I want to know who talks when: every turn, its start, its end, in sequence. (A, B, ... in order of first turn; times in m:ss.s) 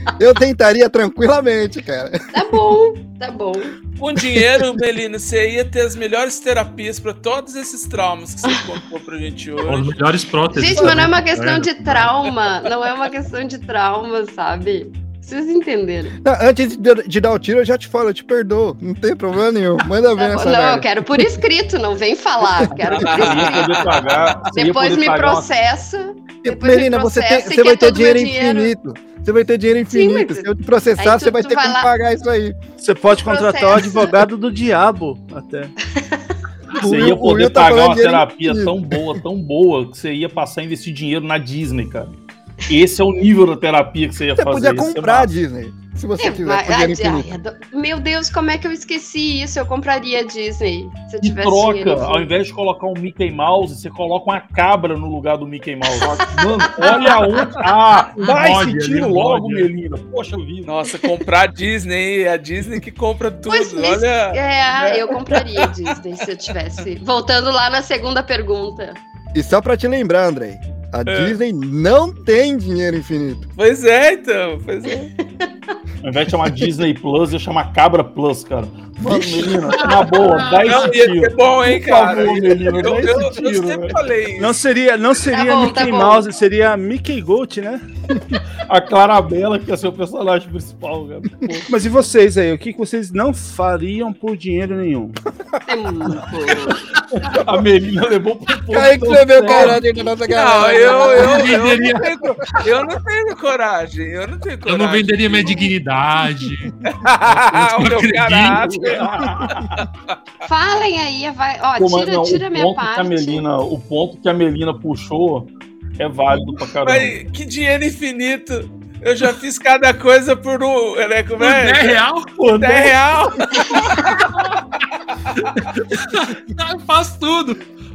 0:00.2-0:02.2 A
0:02.3-0:03.7 B
0:04.0-0:09.9 C
0:09.6-0:12.3 D
0:10.5-0:16.1 B
0:10.7-0:11.0 A
0:16.2-0:20.9 A
0:20.1-0:23.9 B
0:22.8-0:25.5 E
0:22.9-0:23.7 C
0:24.4-0:28.7 B
0:26.4-0:32.6 A
0:29.9-0:31.9 B
0:32.8-0:35.7 F
0:33.2-0:34.1 B
0:35.9-0:36.3 B
0:36.8-0:39.2 A
0:36.8-0:42.1 E
0:42.7-0:45.3 E
0:44.4-0:47.3 A
0:46.2-0:52.3 B
0:51.2-1:00.7 E
0:56.0-0:56.2 B
0:56.7-0:57.1 B
0:56.8-0:57.5 D
0:58.2-0:59.7 D
1:00.6-1:05.7 C
1:03.5-1:09.0 B
1:09.3-1:13.4 A
1:11.1-1:11.4 C
1:13.6-1:15.1 C
1:15.4-1:15.7 B
1:16.0-1:24.0 E
1:19.0-1:19.6 A
1:20.6-1:24.6 C
1:22.2-1:23.3 F
1:24.4-1:27.8 F
1:25.3-1:26.2 B
1:28.6-1:31.7 E
1:31.7-1:35.2 F
1:35.6-1:36.8 B
1:37.3-1:39.7 E
1:38.7-1:41.5 A
1:39.5-1:39.8 D
1:40.3-1:45.7 C
1:41.2-1:42.6 D
1:44.6-1:48.7 D
1:46.8-1:49.7 C
1:48.4-1:49.8 E
1:50.4-1:53.4 B
1:51.8-1:57.1 E
1:56.8-2:04.1 C
2:01.4-2:03.0 D
2:03.5-2:04.6 D
2:05.4-2:07.6 D